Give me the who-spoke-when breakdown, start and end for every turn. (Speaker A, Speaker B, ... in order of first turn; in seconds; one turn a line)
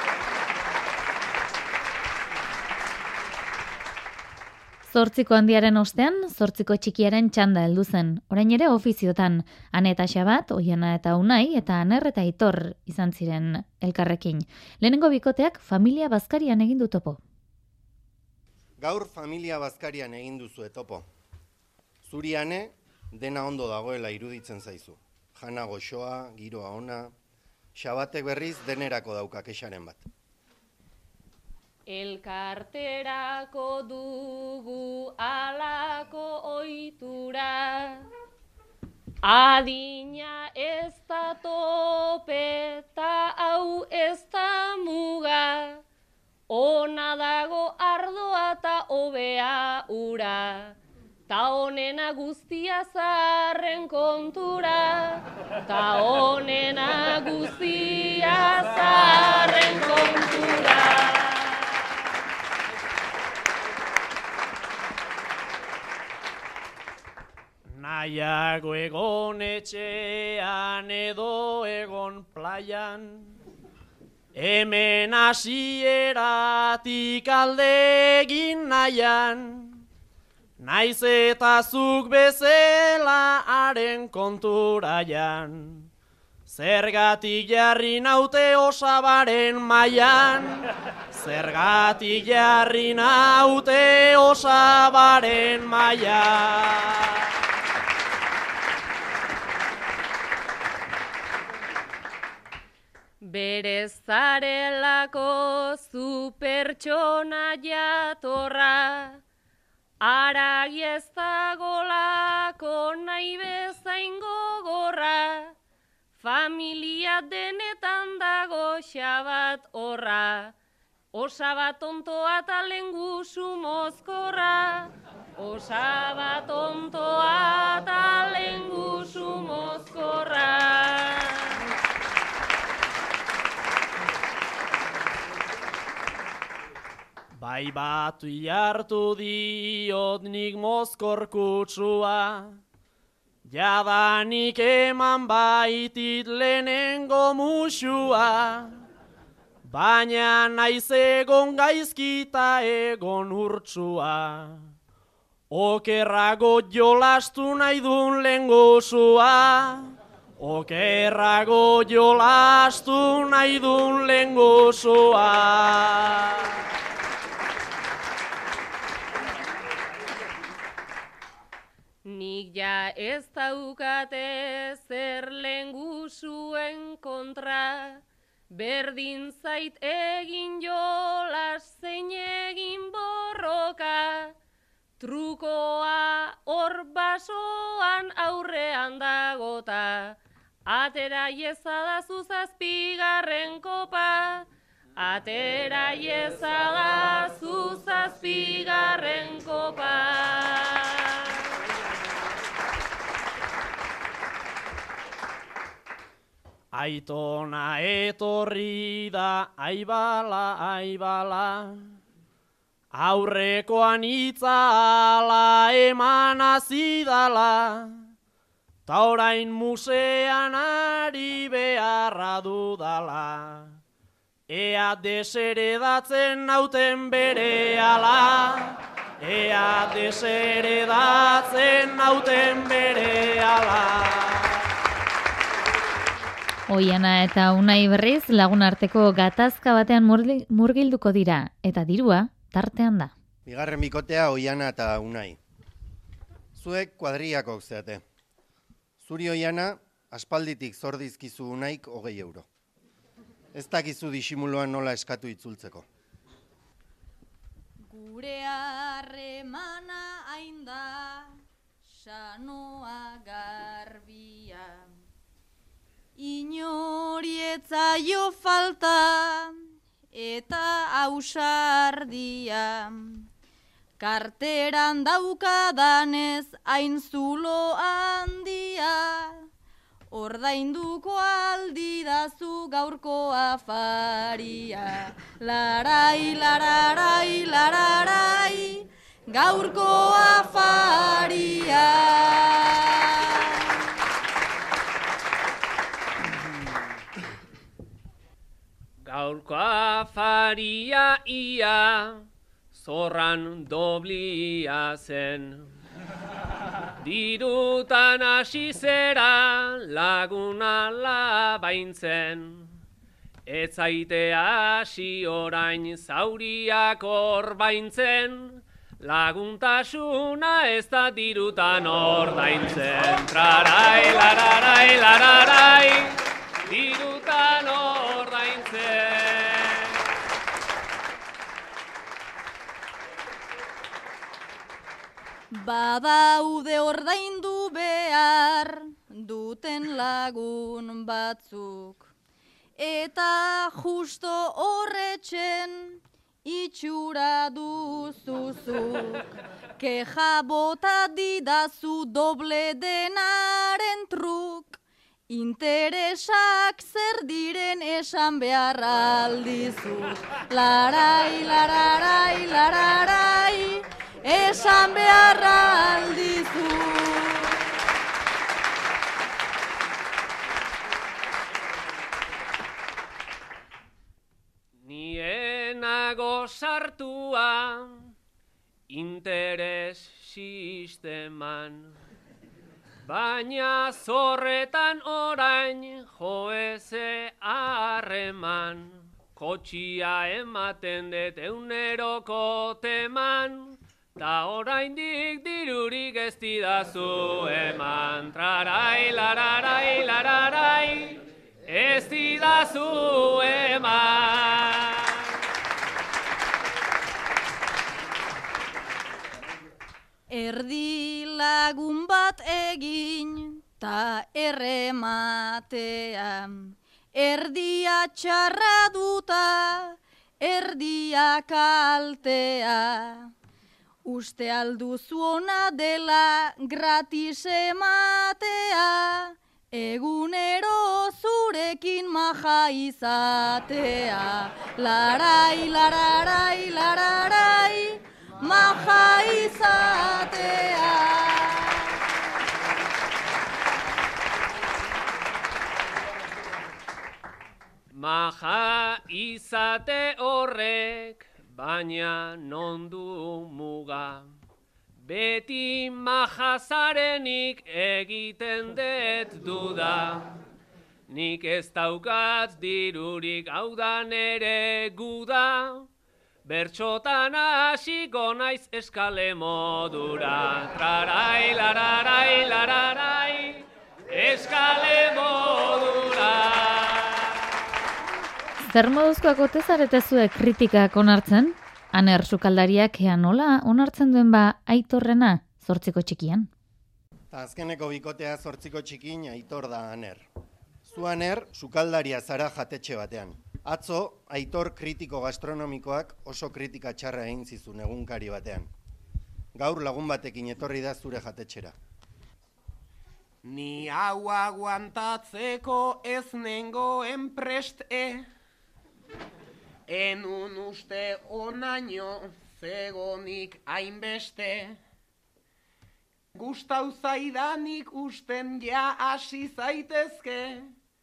Speaker A: 4.9-17.2
Speaker B: 18.8-21.1
Speaker B: 22.0-27.1
Speaker B: 27.8-30.1
Speaker C: 31.9-38.1
Speaker C: 39.2-45.8
Speaker C: 46.5-50.8
Speaker C: 51.3-61.7
Speaker D: 67.7-73.4
Speaker D: 74.3-79.8
Speaker D: 80.6-85.9
Speaker D: 86.5-97.2
Speaker C: 103.2-109.2
Speaker C: 110.0-115.5
Speaker C: 116.2-120.6
Speaker C: 121.1-131.6
Speaker D: 137.4-142.6
Speaker D: 143.4-148.8
Speaker D: 149.7-154.7
Speaker D: 155.5-166.5
Speaker C: 172.1-184.3
Speaker C: 185.0-201.4
Speaker D: 206.7-211.9
Speaker D: 212.9-218.1
Speaker D: 218.9-223.8
Speaker D: 224.5-234.6
Speaker A: 236.7-243.1
Speaker B: 243.5-245.4
Speaker B: 246.6-248.0
Speaker B: 249.0-252.5
Speaker B: 253.5-255.9
Speaker E: 257.9-261.3
Speaker E: 261.9-264.9
Speaker E: 266.2-273.3
Speaker E: 274.0-279.4
Speaker E: 280.1-293.7
Speaker F: 299.1-305.7
Speaker F: 307.0-312.7
Speaker F: 313.5-330.0
Speaker E: 335.5-342.1
Speaker E: 342.8-367.6
Speaker F: 374.8-378.1
Speaker F: 378.9-382.0
Speaker F: 383.0-405.3
Speaker E: 410.3-423.3
Speaker E: 424.1-442.0
Speaker F: 447.9-454.3
Speaker F: 455.0-460.4
Speaker F: 461.1-465.9
Speaker F: 466.4-477.4
Speaker A: 478.6-486.5
Speaker B: 487.3-490.3
Speaker B: 490.9-498.7
Speaker B: 499.6-501.8
Speaker G: 503.4-508.3
Speaker G: 509.9-514.8
Speaker G: 516.3-520.7